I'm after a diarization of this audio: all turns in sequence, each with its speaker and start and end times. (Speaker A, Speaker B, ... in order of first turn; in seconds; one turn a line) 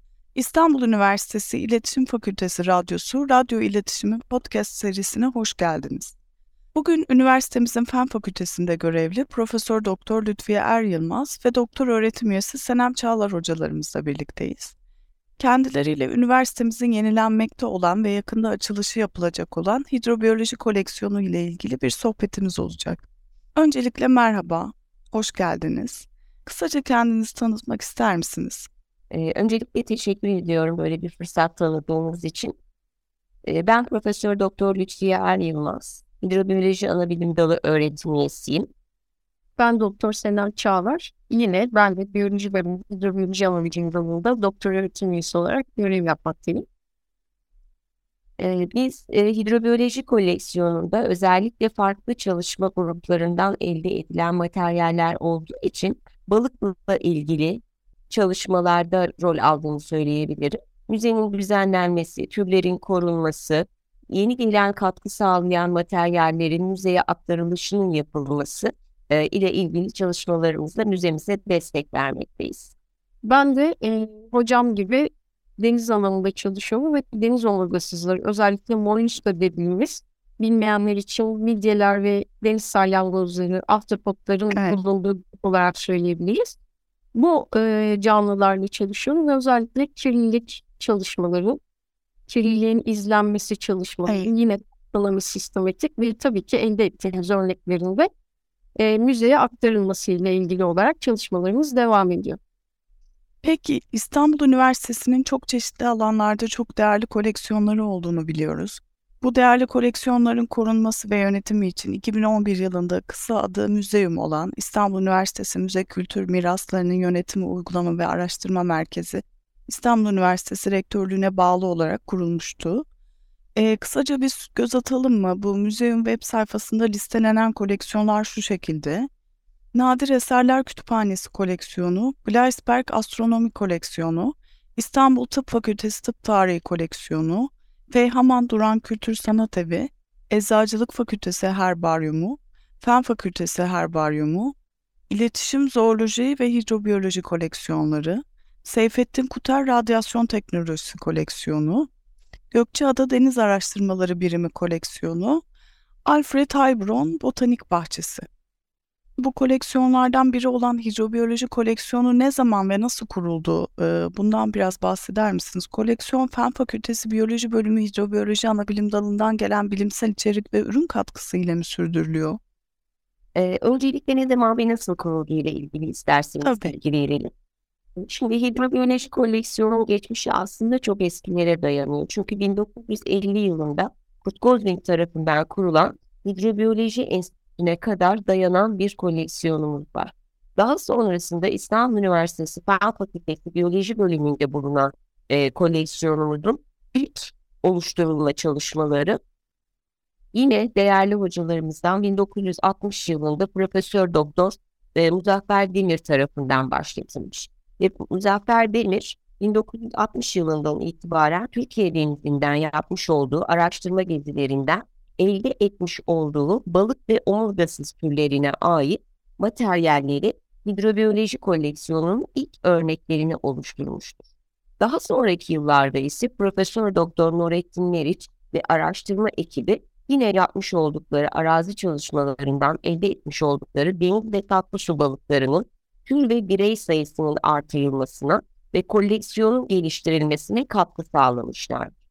Speaker A: 0.3-6.2
Speaker A: 6.7-14.7
Speaker A: 15.4-23.0
Speaker A: 23.6-28.7
Speaker B: 29.1-32.5
Speaker B: 33.5-38.7
Speaker C: 39.6-46.6
Speaker B: 48.4-72.7
Speaker C: 73.2-86.6
Speaker A: 84.5-84.8
Speaker C: 87.1-91.6
Speaker C: 92.3-98.1
Speaker C: 98.8-102.4
Speaker A: 103.4-122.8
Speaker A: 123.6-129.1
Speaker A: 129.7-144.5
Speaker A: 145.1-151.9
Speaker A: 152.5-155.4
Speaker A: 156.1-158.2
Speaker A: 159.2-172.4
Speaker B: 173.3-177.3
Speaker A: 176.4-176.8
Speaker B: 178.0-199.2
Speaker B: 200.3-224.2
Speaker B: 224.8-241.9